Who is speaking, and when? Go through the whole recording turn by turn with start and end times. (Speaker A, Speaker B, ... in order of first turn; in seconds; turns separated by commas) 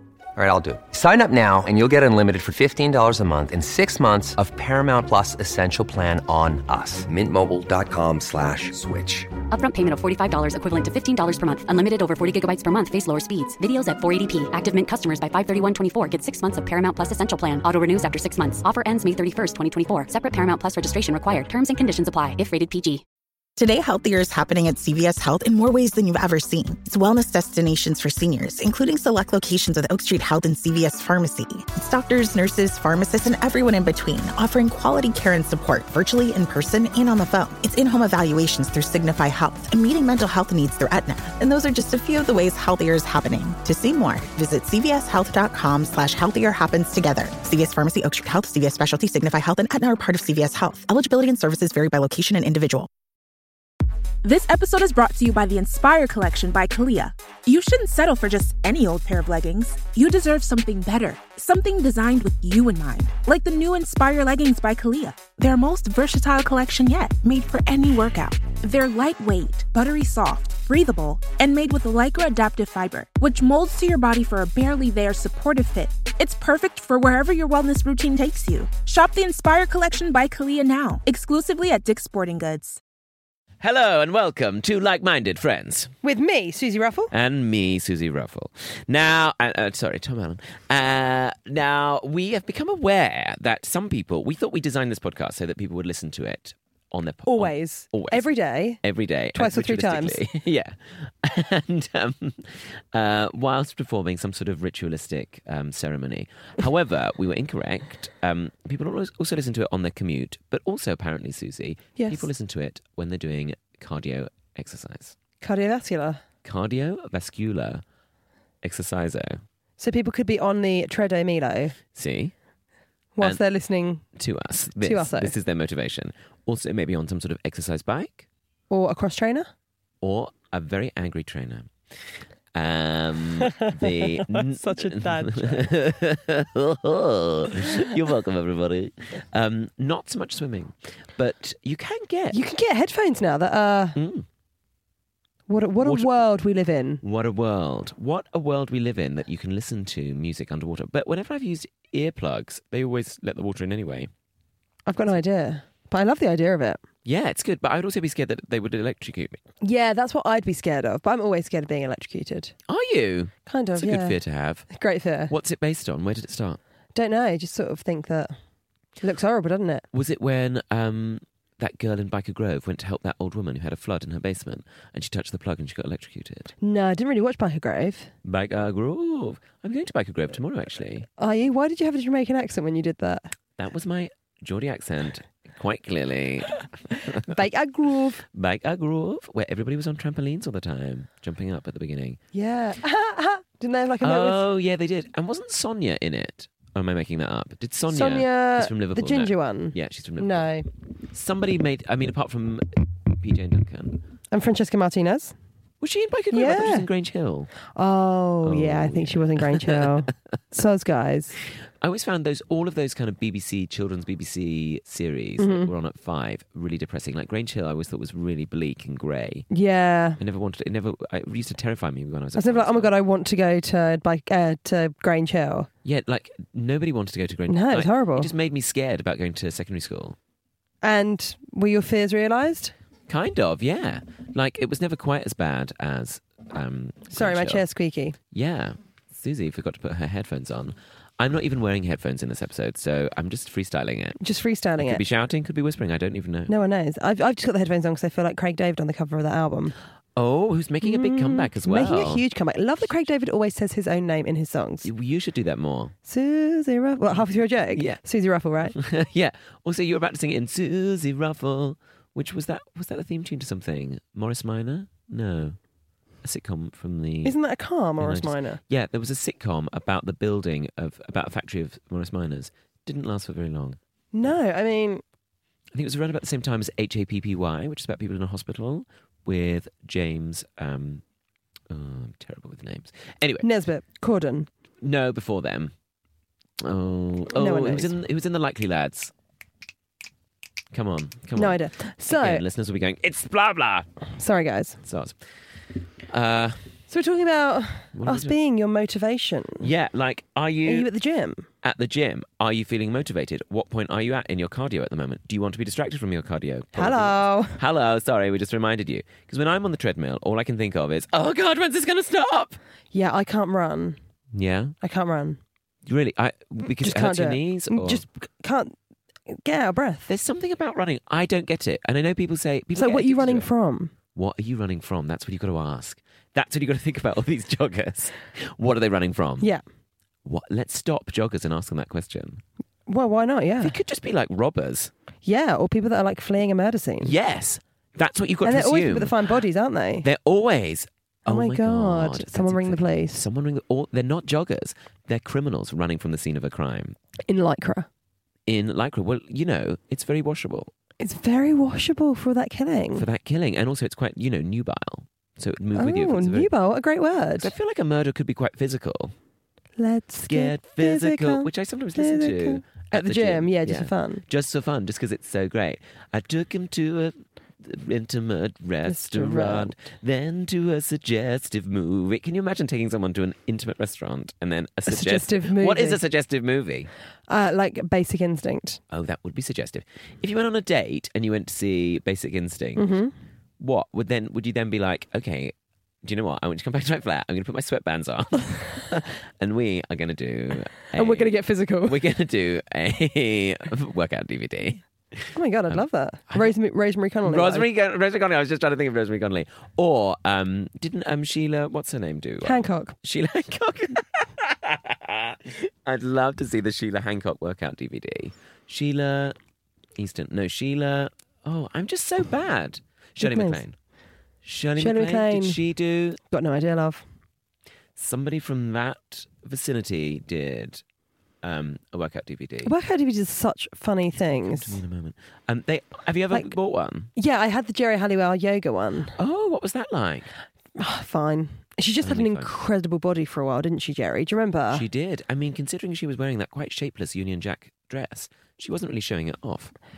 Speaker A: 0.3-9.3, Speaker B: 9.5-23.0, Speaker C: 23.6-52.9, Speaker D: 54.2-82.8, Speaker E: 83.6-85.9, Speaker F: 86.0-87.1, Speaker E: 87.1-98.3, Speaker F: 97.3-98.8, Speaker E: 98.8-115.2, Speaker F: 99.3-100.2, Speaker F: 112.0-112.3, Speaker F: 115.4-116.2, Speaker E: 116.5-117.8, Speaker E: 118.6-119.4, Speaker F: 119.8-121.8, Speaker E: 121.9-122.3, Speaker F: 123.2-124.0, Speaker E: 124.2-128.3, Speaker F: 124.8-125.3, Speaker F: 128.7-129.5, Speaker E: 130.0-131.7, Speaker E: 132.5-142.4, Speaker F: 133.4-135.7, Speaker F: 142.3-144.0, Speaker E: 144.0-144.3, Speaker F: 145.5-147.0, Speaker E: 145.8-146.1, Speaker E: 147.0-154.1, Speaker F: 154.9-156.8, Speaker E: 157.1-159.4, Speaker F: 159.6-162.6, Speaker E: 162.7-164.8, Speaker F: 163.5-164.2, Speaker F: 164.7-165.3, Speaker E: 165.3-166.6, Speaker F: 166.9-168.4, Speaker F: 169.0-169.9, Speaker E: 169.9-176.5, Speaker F: 176.6-178.1, Speaker E: 178.2-181.1, Speaker F: 181.2-183.3, Speaker E: 183.6-187.4, Speaker F: 187.2-188.2, Speaker E: 188.3-192.2, Speaker F: 192.3-194.5, Speaker E: 194.0-200.4, Speaker F: 197.9-200.7, Speaker E: 201.1-204.0, Speaker F: 204.3-205.3, Speaker E: 205.8-207.5, Speaker F: 206.3-206.9, Speaker F: 207.7-211.3, Speaker E: 208.4-210.1, Speaker E: 211.8-219.5, Speaker F: 215.4-215.7, Speaker F: 219.5-220.2, Speaker E: 220.2-222.9, Speaker F: 222.4-225.7, Speaker E: 225.8-230.2, Speaker F: 227.5-228.3, Speaker F: 230.8-232.7, Speaker E: 233.1-237.6, Speaker F: 237.1-238.2, Speaker E: 238.3-244.2, Speaker F: 244.2-245.0, Speaker E: 244.8-246.5, Speaker F: 246.5-249.8, Speaker E: 250.2-252.2, Speaker F: 250.8-254.9, Speaker E: 254.8-255.9, Speaker F: 256.1-258.8, Speaker E: 257.7-258.0, Speaker E: 258.7-265.6, Speaker E: 266.2-267.4, Speaker F: 267.2-268.6, Speaker E: 268.0-273.8, Speaker F: 274.1-275.0, Speaker E: 275.7-281.0, Speaker E: 281.7-283.5, Speaker F: 283.4-284.5, Speaker E: 284.8-285.7, Speaker E: 286.6-289.1, Speaker F: 287.4-288.0, Speaker E: 290.7-293.9, Speaker F: 291.4-292.4, Speaker F: 294.2-294.8, Speaker E: 294.8-295.2, Speaker E: 296.1-296.7, Speaker F: 296.9-299.7, Speaker E: 297.9-298.3, Speaker E: 299.6-300.9, Speaker F: 300.6-301.5, Speaker E: 301.6-312.6, Speaker F: 306.8-307.6, Speaker F: 312.9-314.0, Speaker E: 314.3-314.8, Speaker F: 314.8-315.4, Speaker E: 315.9-318.0, Speaker F: 316.8-318.8, Speaker F: 319.3-320.1, Speaker E: 320.1-323.5, Speaker F: 322.8-323.9, Speaker E: 324.1-329.5, Speaker E: 330.2-332.4, Speaker F: 332.9-333.8, Speaker E: 333.6-334.9, Speaker F: 335.2-337.1, Speaker E: 337.0-339.2, Speaker F: 338.4-340.1, Speaker E: 340.0-347.0, Speaker F: 341.3-343.2, Speaker F: 347.3-347.9, Speaker E: 348.5-350.7, Speaker F: 351.0-353.1, Speaker E: 353.0-356.5, Speaker F: 355.8-357.5, Speaker E: 357.4-359.1, Speaker F: 359.8-364.2, Speaker E: 360.3-376.9, Speaker F: 368.9-369.7, Speaker F: 374.9-376.0, Speaker F: 377.3-378.8, Speaker E: 378.9-382.9, Speaker F: 382.8-383.1, Speaker E: 383.6-385.5, Speaker E: 386.0-395.8, Speaker F: 390.9-392.0, Speaker F: 395.3-397.7, Speaker E: 397.2-409.4, Speaker F: 402.4-403.0, Speaker E: 410.0-413.8, Speaker F: 413.2-413.6, Speaker E: 414.4-416.2, Speaker F: 414.8-415.6, Speaker F: 416.3-417.0, Speaker E: 418.0-420.8, Speaker E: 421.4-422.7, Speaker F: 422.6-424.8, Speaker E: 424.4-427.1, Speaker F: 427.1-429.2, Speaker E: 429.2-430.3, Speaker F: 430.8-434.9, Speaker E: 432.0-432.5, Speaker E: 434.7-439.8